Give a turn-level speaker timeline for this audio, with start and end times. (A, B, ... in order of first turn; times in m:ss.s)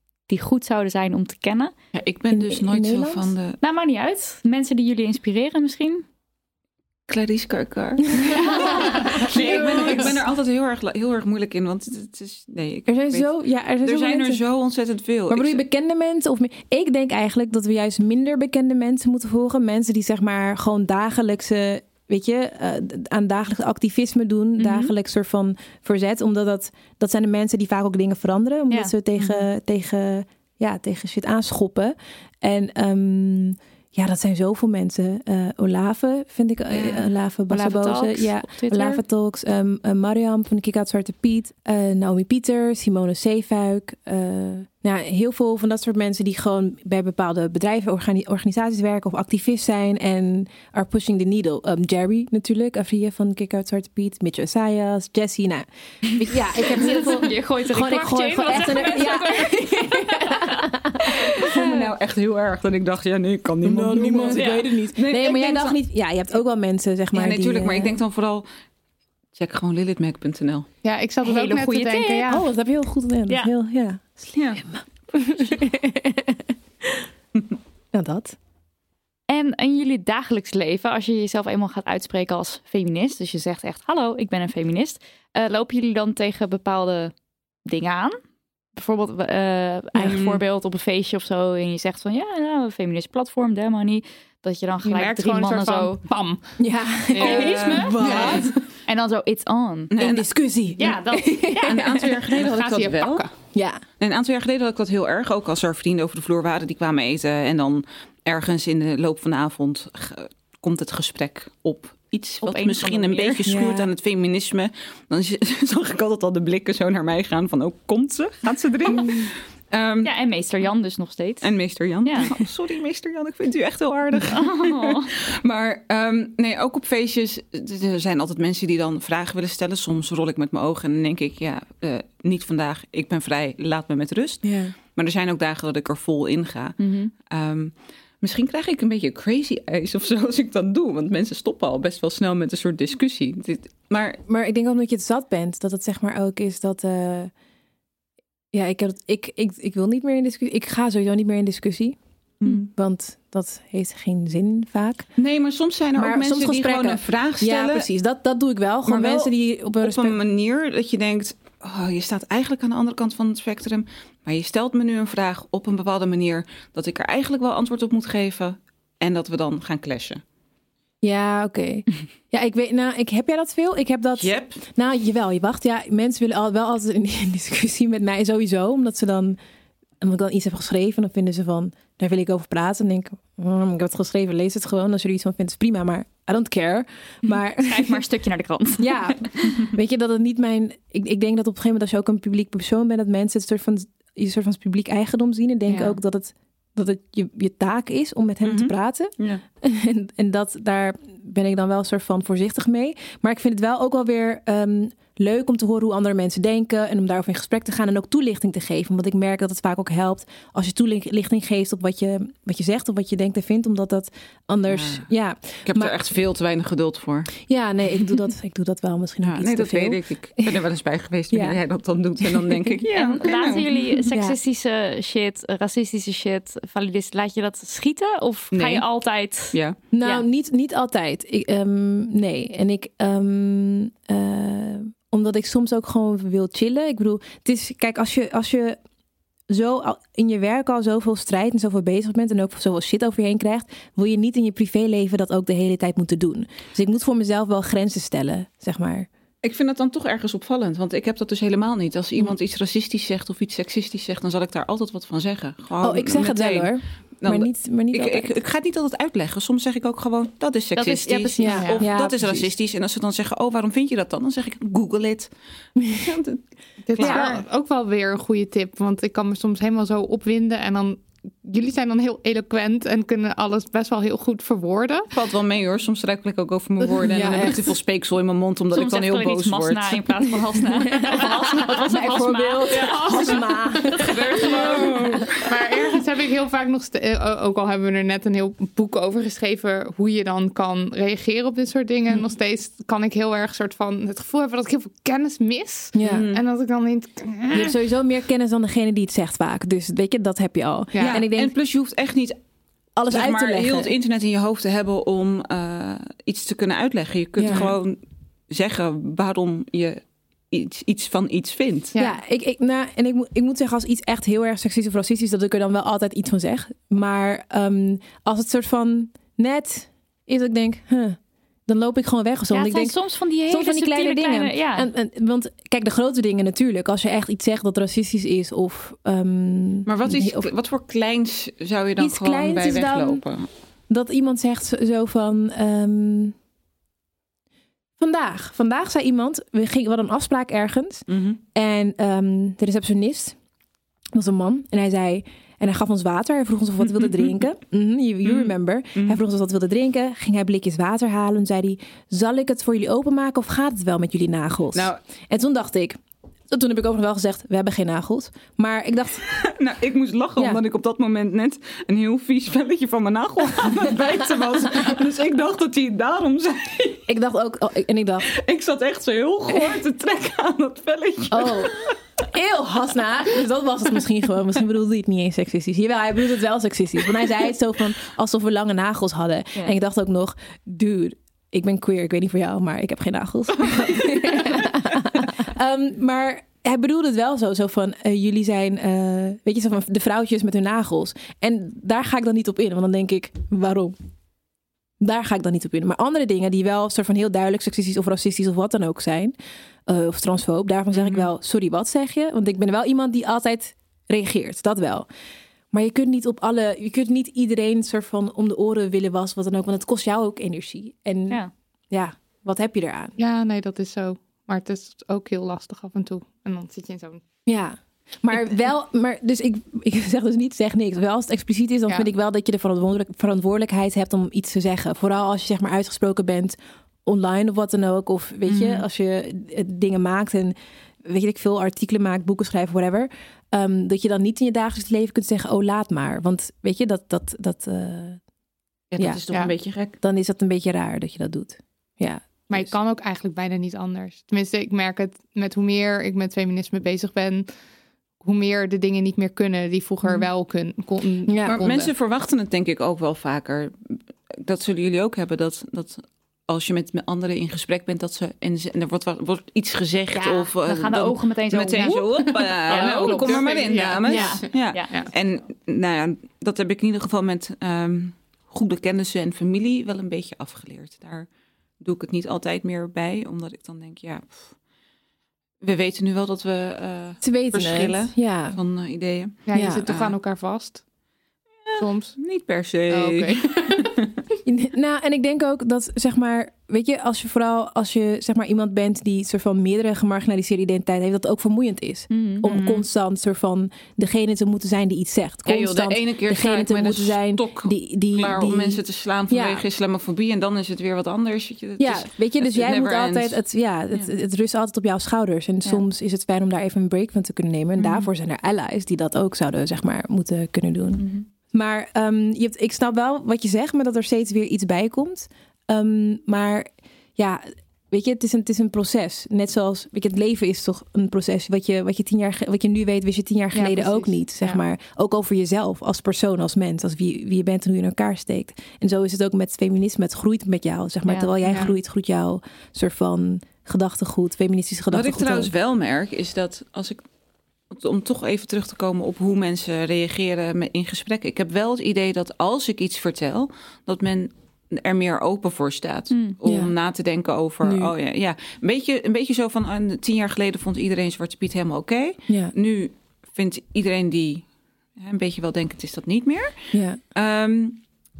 0:00.3-0:01.7 A
0:01.9-0:03.6 B
0:02.3-0:03.3 C
0:03.6-0:06.0 A
0:07.1-0:13.3 B
0:08.2-0:10.2 C
0:08.3-0:10.1 A
0:12.9-0:14.4 C
0:13.8-0:15.6 B
0:15.3-1:01.6 C
0:36.7-0:37.1 B
0:37.5-0:39.0 A
0:56.8-1:00.7 A
1:01.4-1:05.8 B
1:03.6-1:07.9 C
1:04.2-1:04.6 A
1:07.1-1:08.4 B
1:09.4-1:10.7 B
1:10.8-1:12.4 D
1:11.2-1:12.3 A
1:12.3-1:17.1 C
1:14.3-1:14.6 B
1:17.9-1:18.4 C
1:19.3-1:27.1 A
1:27.6-1:28.1 A
1:28.8-1:36.0 A
1:30.0-1:30.3 C
1:34.8-1:36.4 D
1:36.6-1:38.5 C
1:37.1-1:38.5 B
1:37.2-1:38.2 A
1:38.0-1:38.4 D
1:38.8-1:40.2 A
1:39.9-1:40.3 B
1:40.0-1:42.1 C
1:40.8-1:41.8 A
1:41.6-1:43.2 B
1:42.3-1:43.3 D
1:43.5-1:43.8 C
1:44.0-2:00.1 B
1:52.4-1:53.5 A
1:53.4-1:53.9 C
1:58.9-1:59.3 C
2:00.0-2:01.5 A
2:01.4-2:24.2 B
2:02.0-2:02.3 A
2:04.3-2:05.1 A
2:14.4-2:14.7 C
2:16.8-2:17.1 A
2:24.3-2:27.3 C
2:28.5-2:35.1 C
2:32.4-2:32.7 B
2:35.2-2:37.9 B
2:36.0-2:40.2 C
2:38.8-2:39.3 B
2:39.8-2:50.2 B
2:51.0-2:59.4 C
2:54.2-2:54.6 B
3:00.0-3:08.0 C
3:07.6-3:08.9 A
3:08.8-3:35.9 C
3:15.7-3:16.0 A
3:18.4-3:19.4 B
3:34.7-3:35.1 B
3:35.6-3:37.3 B
3:37.5-3:40.6 C
3:39.2-3:44.0 B
3:41.3-3:41.6 C
3:42.2-3:42.8 C
3:42.9-3:50.2 A
3:44.0-3:44.4 C
3:48.5-3:48.8 B
3:49.9-3:58.8 C
3:59.5-4:09.1 C
4:09.4-4:25.3 B
4:15.8-4:18.4 C
4:20.8-4:21.6 A
4:21.4-4:22.5 C
4:21.6-4:21.8 D
4:25.9-4:26.4 B
4:26.9-4:35.1 D
4:26.9-4:27.4 B
4:35.1-4:40.0 B
4:37.0-4:37.7 C
4:38.7-4:45.2 A
4:40.9-4:45.3 C
4:44.6-4:45.2 B
4:45.4-4:57.7 D
4:55.9-4:56.3 C
4:56.0-4:56.4 B
4:57.5-5:01.6 C
5:00.9-5:01.2 D
5:01.0-5:02.4 B
5:03.0-5:03.9 C
5:03.1-5:08.0 B
5:07.4-5:07.7 C
5:08.5-5:11.9 B
5:12.0-5:23.0 C
5:22.5-5:24.9 A
5:23.5-5:30.5 C
5:29.8-5:33.5 B
5:32.0-5:33.2 C
5:33.9-5:36.3 C
5:38.0-5:43.4 C
5:41.1-5:41.4 B
5:44.1-5:56.0 C
5:46.8-5:47.4 B
5:48.2-5:49.2 B
5:54.7-5:55.0 B
5:56.5-5:59.2 C
5:59.3-6:07.0 B
6:07.1-6:08.3 C
6:08.3-6:11.9 B
6:09.5-6:09.8 C
6:11.3-6:34.0 C
6:23.6-6:24.6 B
6:35.0-6:39.3 C
6:39.9-6:45.1 C
6:40.9-6:41.2 B
6:45.7-6:53.2 C
6:53.2-6:57.2 D
6:57.4-7:18.2 C
7:08.5-7:08.8 B
7:18.9-7:20.0 B
7:20.0-7:22.7 C
7:22.5-7:27.5 D
7:28.2-7:31.9 D
7:31.2-7:31.6 C
7:31.4-7:51.3 B
7:40.1-7:43.4 A
7:41.9-7:45.1 D
7:44.1-7:44.9 A
7:44.1-7:44.4 C
7:51.8-7:54.5 B
7:55.6-8:00.1 B
7:57.2-7:58.6 C
7:59.5-8:00.8 D
7:59.5-7:59.8 C
8:01.6-8:04.1 B
8:01.8-8:02.1 D
8:02.9-8:03.9 D
8:04.4-8:19.6 C
8:12.1-8:12.4 A
8:12.4-8:12.8 B
8:15.4-8:23.4 B
8:21.8-8:55.5 C
8:27.8-8:28.1 B
8:31.0-8:31.2 A
8:43.5-8:44.6 D
8:51.1-8:51.3 A
8:51.4-8:51.7 D
8:54.9-8:57.0 B
8:57.7-9:14.4 B
9:06.4-9:06.7 C
9:07.6-9:07.9 C
9:12.3-9:12.5 C
9:15.0-9:16.5 B
9:16.7-9:17.0 C
9:17.1-9:17.8 B